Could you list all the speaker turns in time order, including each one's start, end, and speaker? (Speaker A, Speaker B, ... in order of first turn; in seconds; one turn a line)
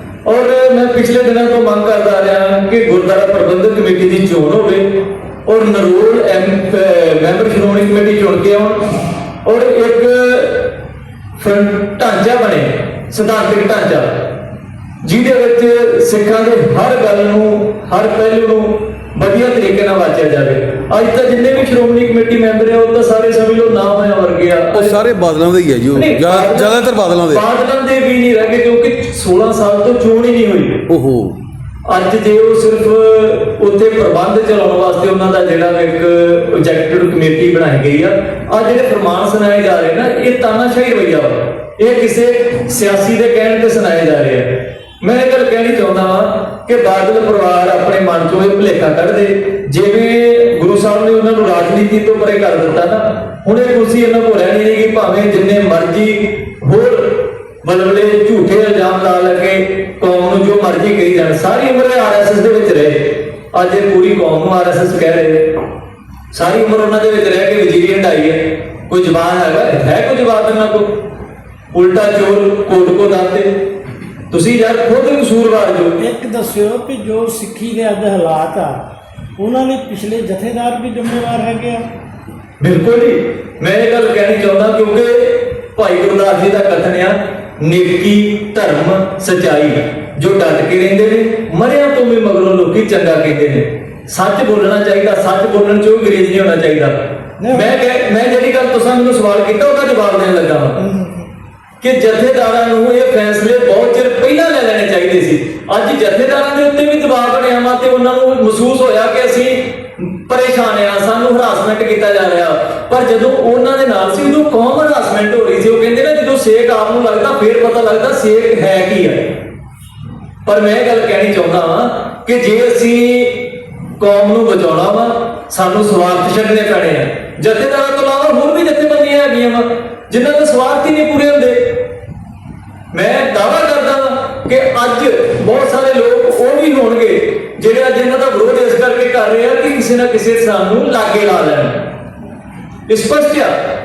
Speaker A: 0.2-10.7
Speaker A: 11.4-14.1
Speaker A: 15.0-25.0
Speaker B: 24.7-27.4
Speaker A: 25.9-26.8
Speaker A: 27.3-30.8
Speaker B: 30.9-31.4
Speaker A: 31.9-44.5
Speaker A: 45.0-65.5
Speaker A: 66.3-70.9
Speaker A: 71.7-73.5
Speaker A: 74.3-75.9
Speaker C: 76.0-78.8
Speaker C: 79.4-81.8
Speaker A: 82.6-97.0
Speaker C: 97.4-97.7
Speaker A: 97.5-100.8
Speaker C: 100.8-101.3
Speaker A: 101.8-119.4
Speaker A: 120.5-131.8
Speaker A: 132.9-141.8
Speaker A: 142.9-143.5